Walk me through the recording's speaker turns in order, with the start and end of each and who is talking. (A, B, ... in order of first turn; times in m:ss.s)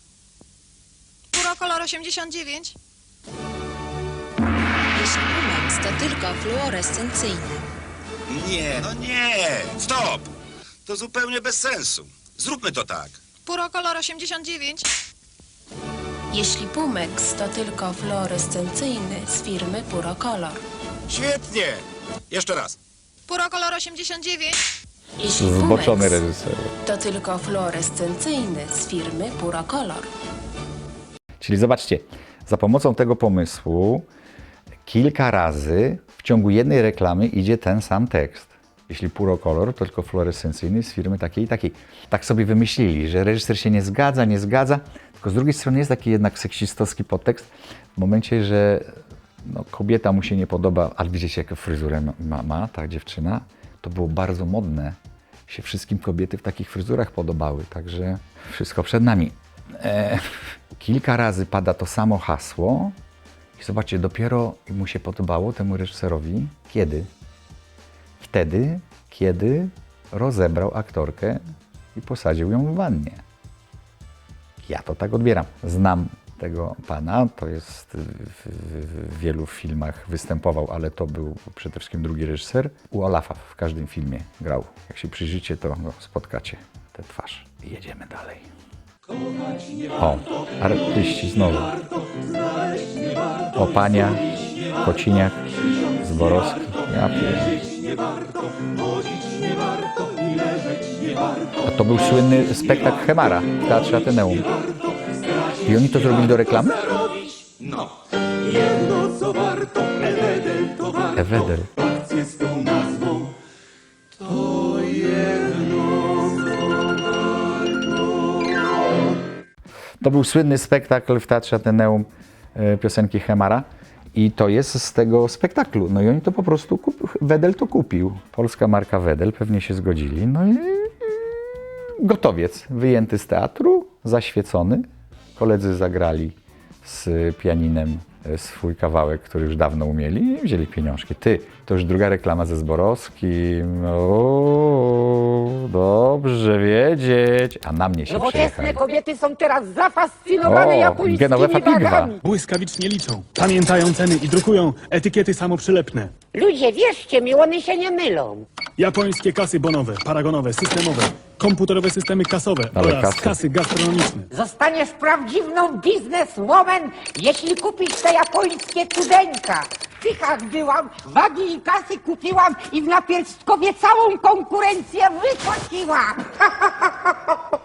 0:01.3-0:02.8 A
0:04.9-0:07.6 A
0:08.3-0:10.3 B
0:10.9-0:13.2 B
0:13.5-0:14.9 A
0:16.3-0:20.6 A
0:21.1-0:22.8 B
0:23.3-0:24.6 A
0:25.2-0:26.2 A
0:25.3-0:26.7 C
0:26.8-0:30.1 A
0:31.4-0:34.1 C
0:34.8-1:03.0 C
1:03.6-1:07.1 C
1:08.2-1:11.4 C
1:11.9-1:13.2 C
1:14.6-1:28.5 C
1:30.0-1:31.8 C
1:33.6-1:34.2 C
1:34.8-1:37.6 C
1:41.6-1:44.5 C
1:45.6-1:47.0 C
1:51.1-1:51.7 C
2:00.0-2:11.4 C
2:12.0-2:14.9 C
2:15.4-2:28.8 C
2:28.1-2:32.2 D
2:30.4-2:32.2 C
2:32.2-2:36.1 E
2:36.3-2:38.5 D
2:38.8-2:44.3 E
2:42.7-2:43.4 C
2:44.3-2:56.9 D